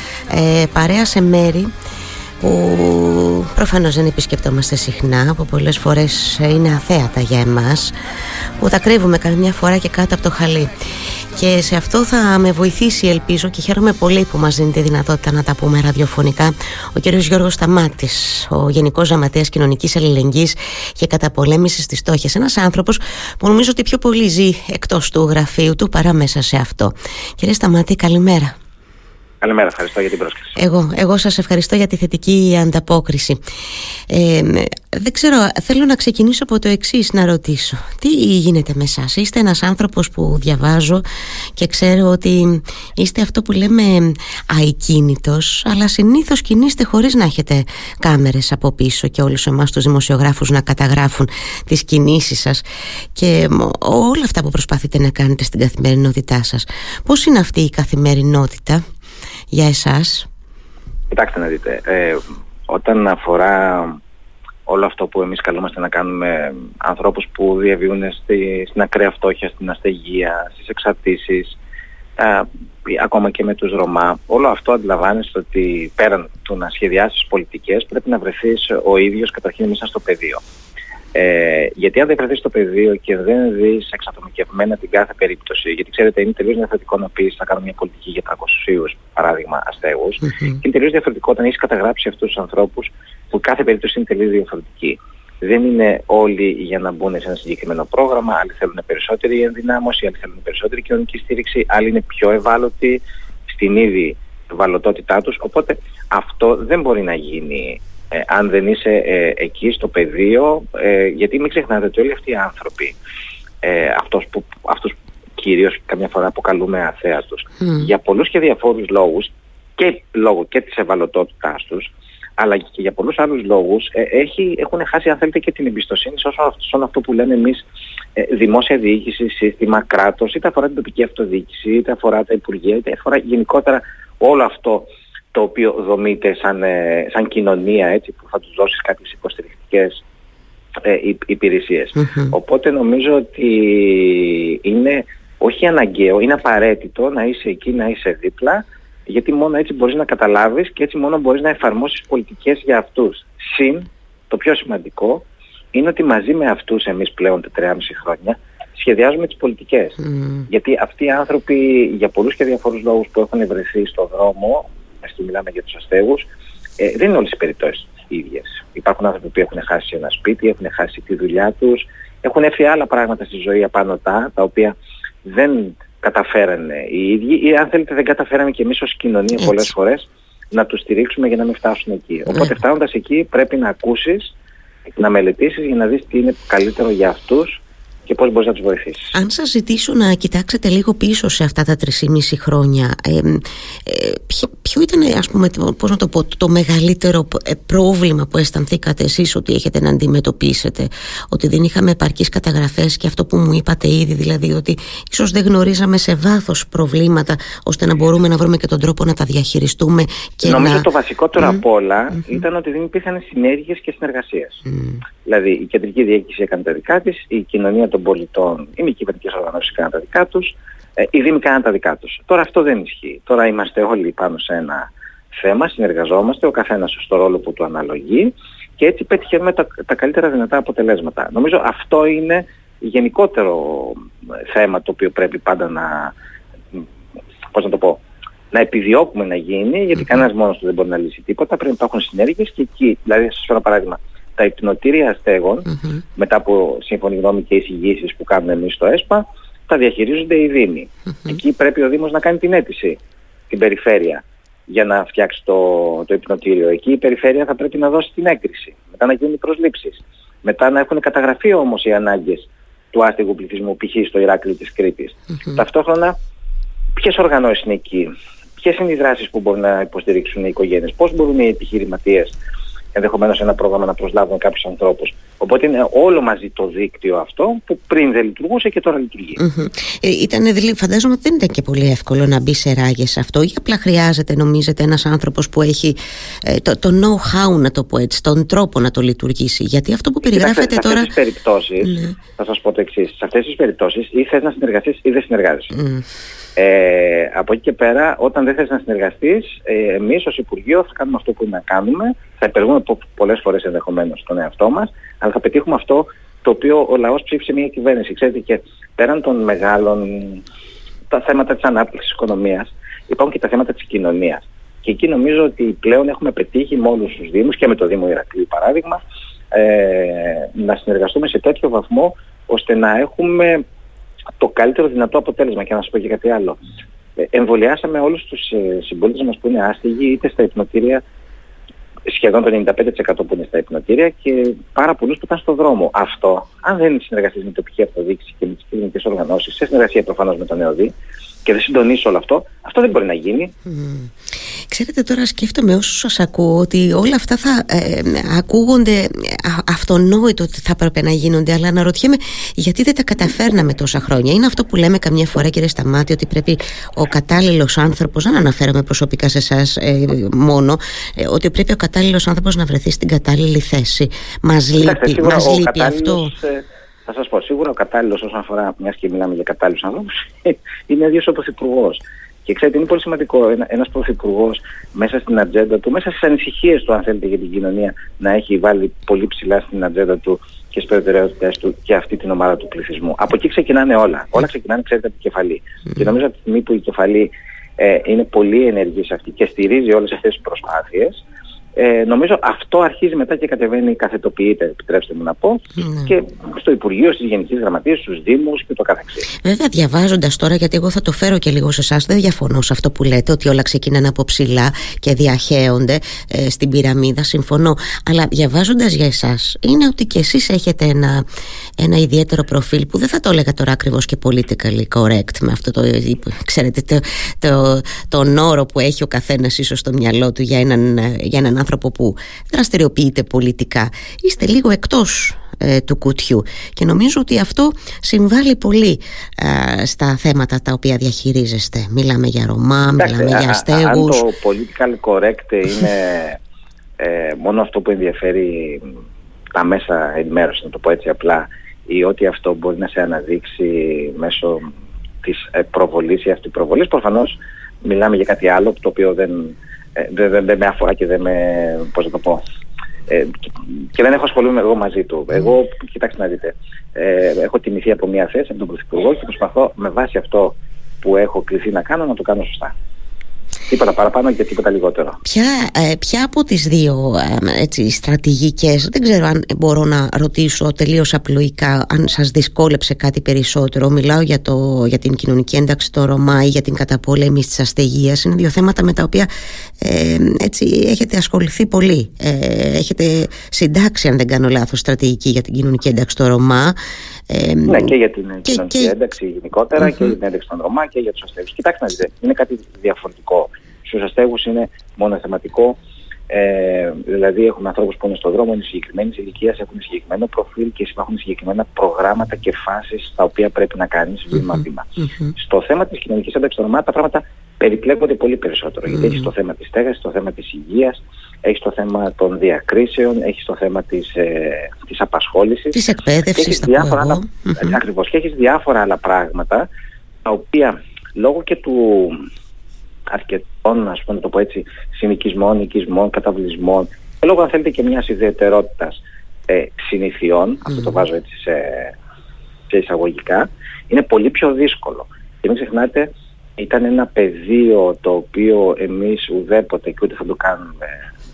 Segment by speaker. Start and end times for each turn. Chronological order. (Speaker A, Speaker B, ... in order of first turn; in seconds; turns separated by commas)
Speaker A: 0.3-1.7, Speaker A: 2.4-7.9, Speaker A: 8.6-10.7, Speaker A: 11.3-28.5, Speaker B: 29.4-30.6, Speaker A: 30.6-33.4, Speaker A: 34.1-41.0, Speaker A: 41.6-52.6, Speaker A: 53.1-58.8, Speaker A: 59.5-60.3, Speaker B: 61.1-64.0, Speaker B: 64.7-71.6, Speaker B: 72.2-80.4, Speaker B: 81.1-113.0, Speaker A: 90.3-90.6, Speaker B: 113.6-127.7, Speaker B: 128.2-140.0, Speaker B: 140.8-166.3, Speaker A: 142.0-142.3, Speaker A: 160.1-160.5, Speaker B: 166.8-184.3, Speaker A: 179.4-179.7, Speaker B: 185.0-189.1, Speaker A: 189.1-210.8, Speaker B: 210.4-214.6, Speaker A: 214.7-215.0, Speaker B: 215.2-236.1, Speaker B: 237.5-238.0, Speaker B: 238.5-253.0, Speaker B: 253.5-266.2, Speaker B: 267.0-272.4, Speaker B: 272.9-279.4, Speaker A: 279.4-291.1, Speaker B: 290.3-295.7, Speaker A: 291.9-292.2, Speaker A: 295.7-296.1, Speaker B: 296.6-310.4, Speaker B: 311.1-319.0, Speaker B: 319.5-323.6, Speaker B: 324.4-326.6, Speaker B: 327.2-331.0, Speaker B: 332.1-340.9, Speaker B: 341.4-343.5, Speaker A: 343.7-344.1, Speaker A: 344.7-366.3, Speaker B: 364.8-391.2, Speaker B: 391.8-399.2, Speaker A: 399.4-411.2, Speaker A: 411.8-434.2, Speaker B: 433.0-436.4, Speaker B: 437.0-439.0, Speaker B: 439.5-444.7, Speaker B: 445.2-452.4, Speaker B: 453.1-462.7, Speaker B: 463.7-465.2, Speaker A: 465.2-479.3, Speaker A: 479.8-486.8, Speaker A: 487.3-487.9, Speaker B: 487.7-495.8, Speaker A: 488.5-488.9, Speaker A: 489.8-490.1, Speaker B: 496.3-515.8, Speaker A: 508.9-509.3, Speaker A: 515.7-517.8, Speaker B: 516.3-519.7, Speaker B: 520.2-522.2, Speaker B: 523.1-532.0, Speaker B: 532.7-541.0